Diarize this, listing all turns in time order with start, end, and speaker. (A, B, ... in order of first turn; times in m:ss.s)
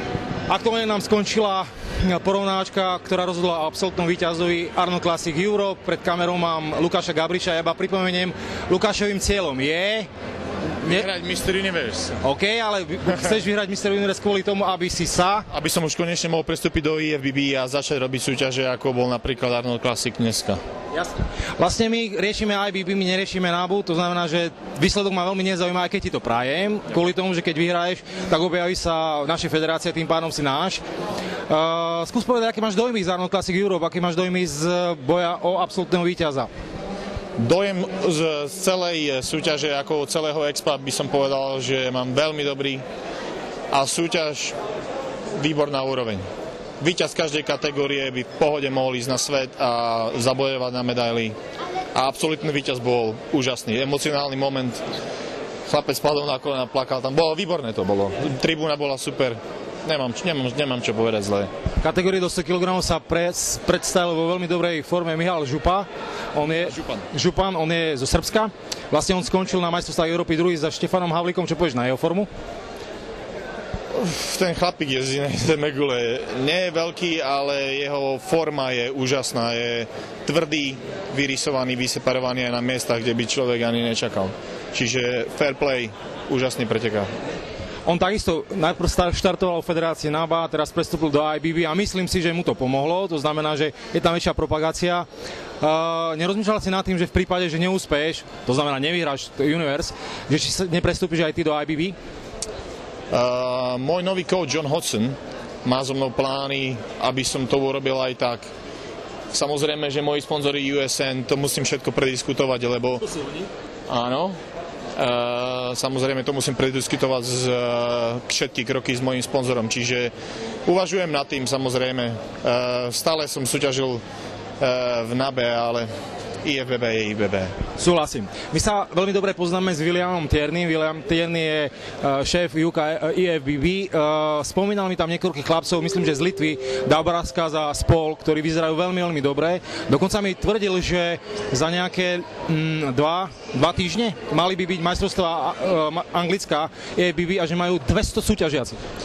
0:00.5-0:10.1 A
0:10.8-0:12.2 B
0:12.2-0:15.5 A
0:15.5-0:20.6 B
0:21.0-0:30.8 A
0:31.5-0:36.5 A
0:37.4-0:42.8 B
0:43.7-0:44.6 B
0:45.4-0:46.2 B
0:46.8-0:51.4 B
0:52.0-0:54.8 B
0:55.7-1:01.5 B
1:01.8-1:12.3 A
1:13.9-1:27.1 B
1:27.9-1:35.1 A
1:35.6-1:42.0 A
1:43.1-1:48.5 B
1:49.3-1:53.0 B
1:53.9-1:54.4 B
1:55.0-2:00.1 B
2:00.6-2:04.0 B
2:04.6-2:05.9 B
2:06.4-2:07.5 B
2:07.8-2:28.8 A